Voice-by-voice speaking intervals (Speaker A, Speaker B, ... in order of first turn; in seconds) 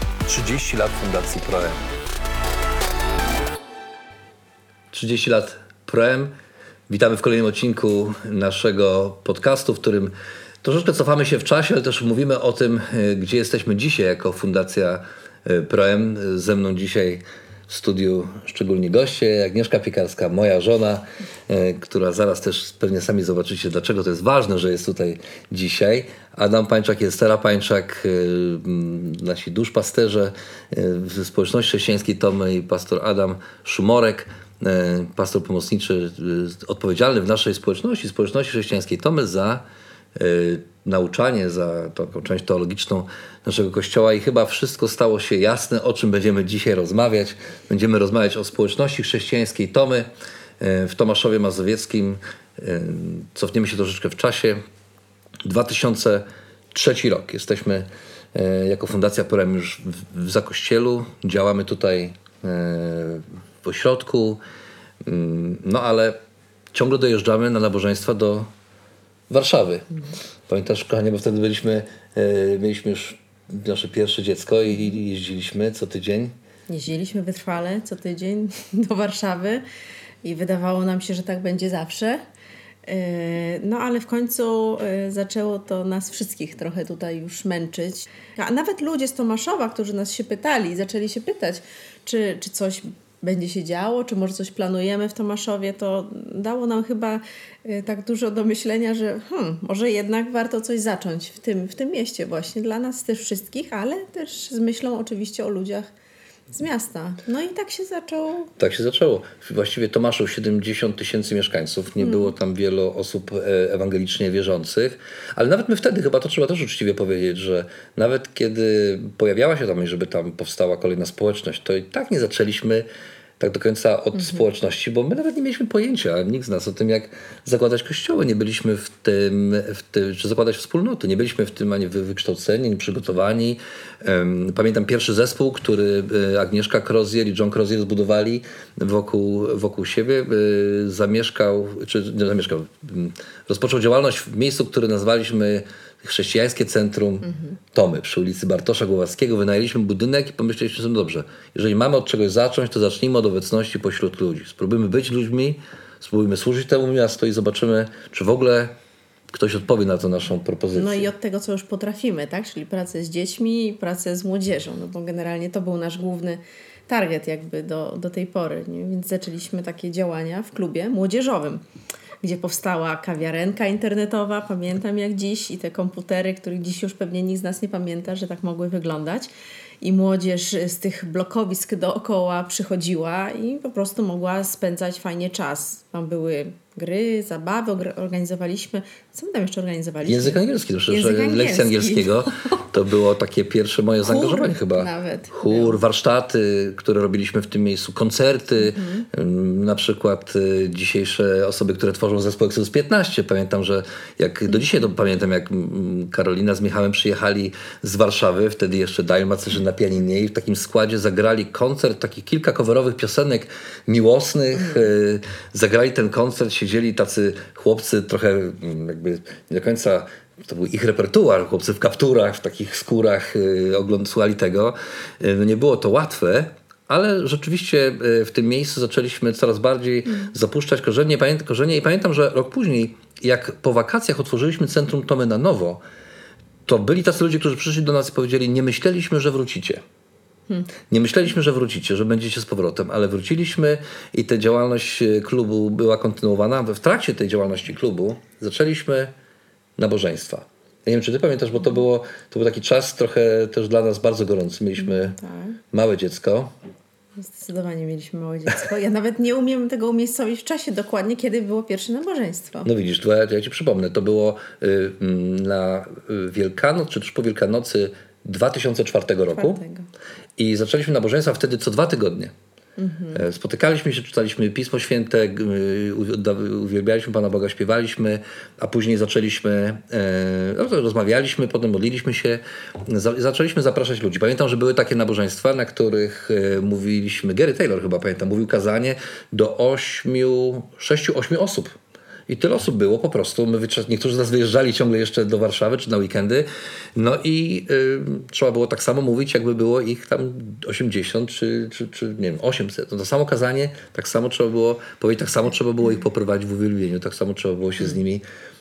Speaker A: 0.3-1.9, 4.9-6.3, 6.9-50.1, 50.6-54.6, 55.5-64.4, 65.0-66.2, 66.7-68.5, 69.3-69.9, 70.5-76.3, 108.6-122.9, 123.4-158.7, 159.3-161.1, 190.0-235.8, 236.7-239.8, 240.9-249.1, 249.8-255.2, 255.7-256.5, 262.6-269.6, 270.4-272.3, 273.1-291.8, 292.3-308.2
Speaker B: 76.7-79.6, 80.2-82.2, 82.9-105.9, 106.5-108.5, 112.0-112.3, 124.2-124.5, 147.2-147.5, 160.7-171.6, 172.2-179.3, 179.8-192.7, 194.0-195.8, 198.6-199.1, 254.8-255.6, 257.2-262.7, 269.3-269.9, 272.8-273.2